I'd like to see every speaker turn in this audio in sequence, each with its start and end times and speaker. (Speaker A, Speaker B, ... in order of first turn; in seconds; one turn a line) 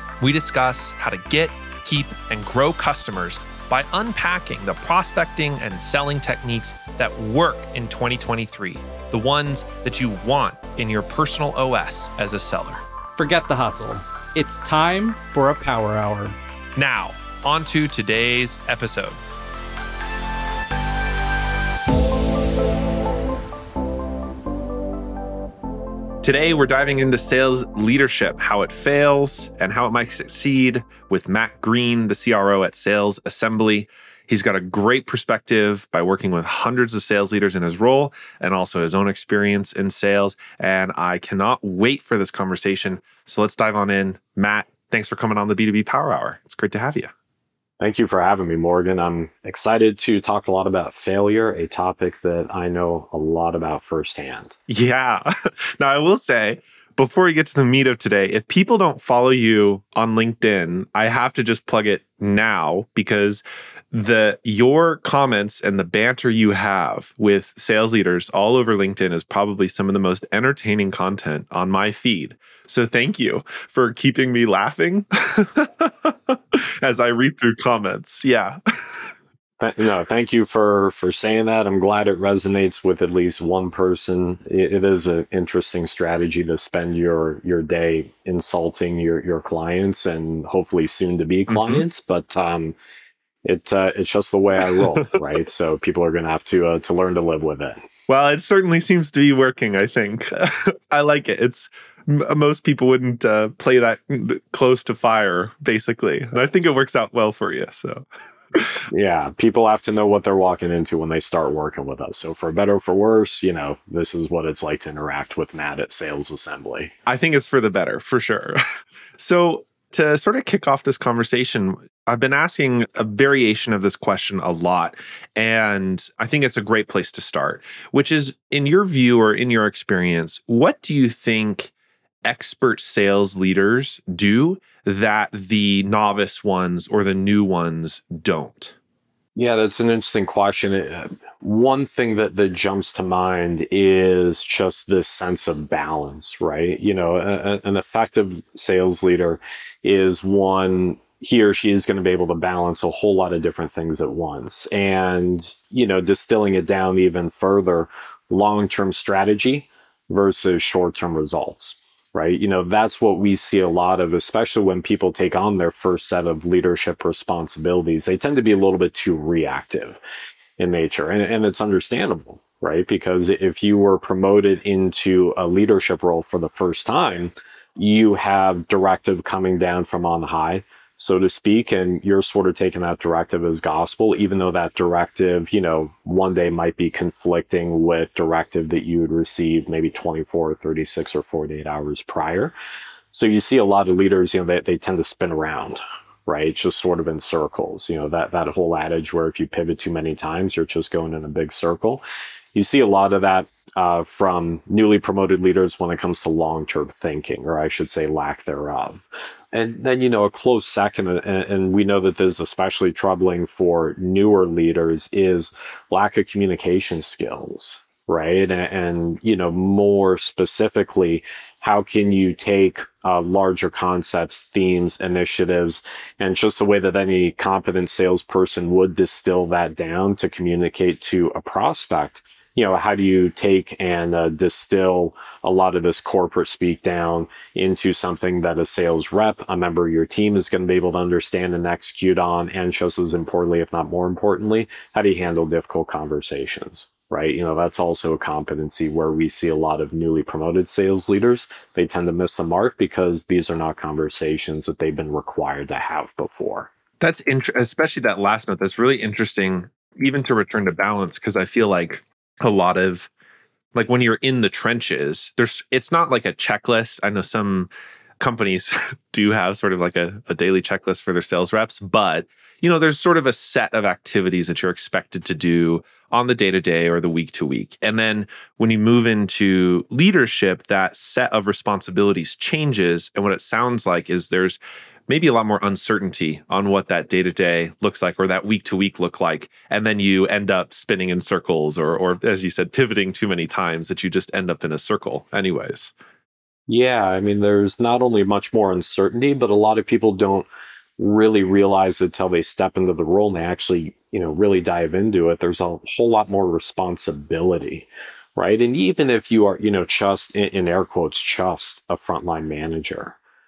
Speaker A: 0.2-12.8
Speaker B: 13.2-16.4
Speaker A: 16.8-19.2
Speaker A: 26.2-47.1
Speaker C: 47.8-54.6
Speaker A: 54.7-79.1
Speaker C: 79.6-92.8
Speaker A: 91.5-91.8
Speaker C: 93.4-97.8
Speaker A: 94.6-94.9
Speaker A: 98.1-108.8
Speaker C: 108.9-116.9
Speaker A: 117.0-118.6
Speaker A: 119.2-131.7
Speaker A: 132.2-138.7
Speaker C: 139.3-170.0
Speaker C: 170.6-192.5
Speaker C: 193.1-202.0
Speaker C: 202.5-256.7
Speaker A: 257.0-263.1
Speaker A: 263.7-267.7
Speaker A: 268.2-295.9
Speaker C: 296.7-300.4
Speaker C: 301.0-313.2